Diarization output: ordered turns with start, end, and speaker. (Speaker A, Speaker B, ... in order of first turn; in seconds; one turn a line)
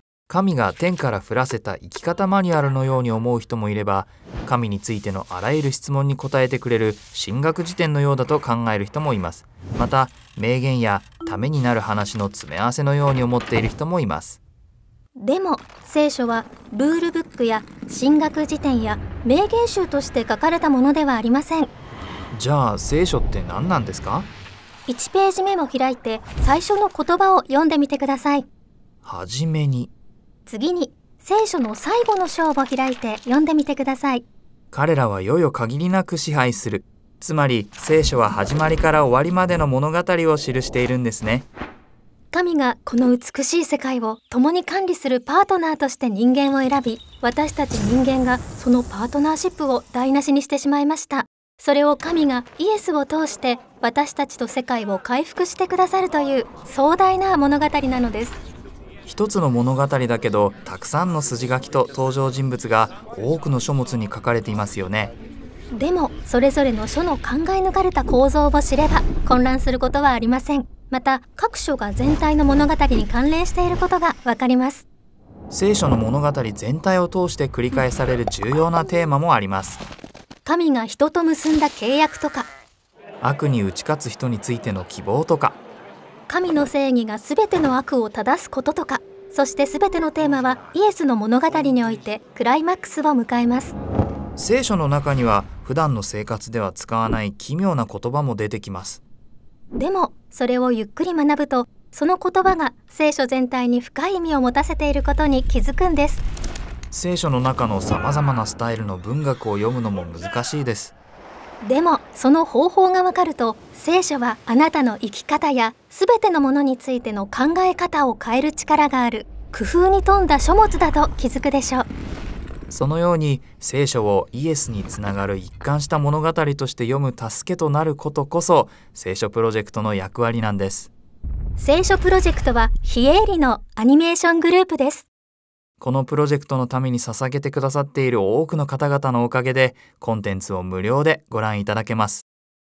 Speaker A: 0.3-14.4
Speaker B: 15.2-21.7
Speaker A: 22.3-24.3
Speaker B: 24.9-28.5
Speaker A: 29.0-29.9
Speaker B: 30.5-34.3
Speaker A: 34.7-41.5
Speaker B: 42.3-58.4
Speaker A: 59.1-65.1
Speaker B: 65.8-74.9
Speaker A: 75.5-79.8
Speaker B: 80.5-82.5
Speaker A: 83.2-85.6
Speaker B: 86.3-93.8
Speaker A: 94.4-99.0
Speaker B: 99.8-106.2
Speaker A: 106.9-111.0
Speaker B: 111.6-121.9
Speaker A: 122.7-130.9
Speaker B: 131.6-135.1
Speaker A: 135.8-142.2